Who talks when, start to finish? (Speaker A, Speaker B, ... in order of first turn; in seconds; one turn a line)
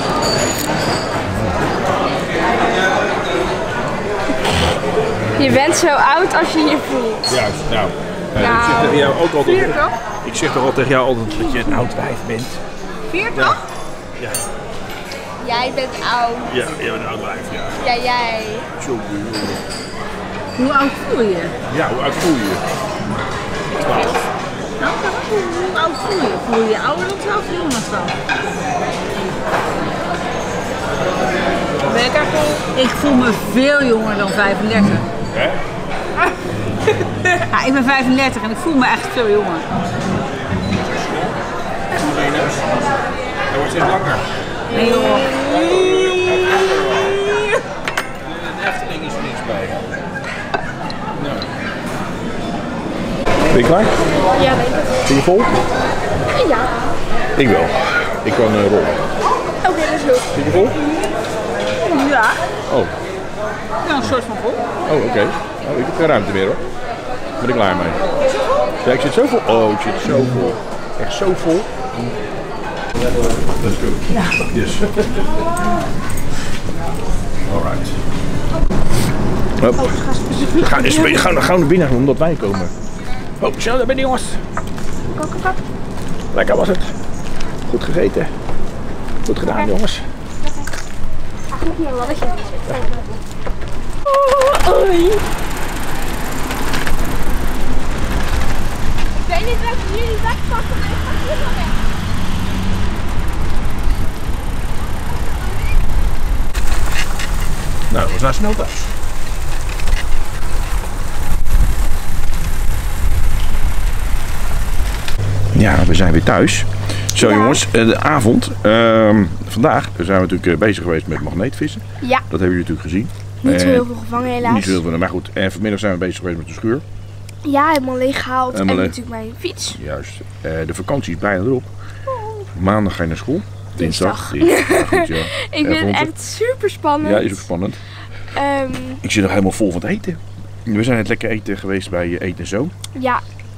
Speaker A: 1.2-1.6
Speaker B: 5.4-7.4
Speaker A: 7.3-12.6
Speaker B: 8.4-9.9
Speaker B: 11.3-11.8
Speaker B: 13.1-13.4
Speaker A: 13.3-13.6
Speaker A: 14.2-14.4
Speaker B: 15.4-16.6
Speaker A: 16.5-17.8
Speaker B: 17.8-18.7
Speaker A: 18.8-19.6
Speaker C: 20.6-21.5
Speaker A: 21.7-22.6
Speaker B: 23.7-24.2
Speaker A: 23.7-24.2
Speaker C: 24.8-28.1
Speaker B: 31.9-32.6
Speaker C: 32.7-35.0
Speaker A: 35.3-35.6
Speaker C: 37.4-39.7
Speaker A: 40.6-41.4
Speaker A: 41.9-43.0
Speaker A: 43.5-44.3
Speaker B: 44.7-47.6
Speaker C: 44.7-45.3
Speaker A: 45.4-47.2
Speaker A: 48.2-49.8
Speaker A: 51.1-51.5
Speaker A: 53.5-54.0
Speaker B: 54.3-55.0
Speaker A: 55.0-55.6
Speaker B: 56.3-56.8
Speaker A: 57.4-59.1
Speaker B: 59.6-60.3
Speaker A: 60.3-60.8
Speaker C: 61.8-62.4
Speaker A: 62.7-62.9
Speaker C: 63.8-64.7
Speaker A: 64.8-66.6
Speaker A: 67.4-68.0
Speaker A: 68.8-71.8
Speaker A: 73.6-75.0
Speaker A: 77.5-78.0
Speaker A: 79.6-80.0
Speaker B: 79.8-81.2
Speaker A: 80.5-82.7
Speaker A: 83.4-84.4
Speaker B: 85.1-85.6
Speaker A: 86.3-86.9
Speaker A: 87.7-88.3
Speaker A: 89.3-90.1
Speaker B: 89.4-89.7
Speaker B: 91.5-93.1
Speaker B: 94.0-95.2
Speaker B: 99.2-101.8
Speaker A: 107.9-108.9
Speaker A: 115.5-126.8
Speaker B: 117.2-117.6
Speaker B: 123.4-124.8
Speaker B: 127.4-129.8
Speaker A: 128.5-129.0
Speaker A: 129.7-131.7
Speaker B: 132.1-132.5
Speaker A: 132.5-136.1
Speaker B: 133.8-137.5
Speaker A: 137.0-137.8
Speaker B: 138.2-139.0
Speaker A: 139.0-142.7
Speaker B: 142.9-143.2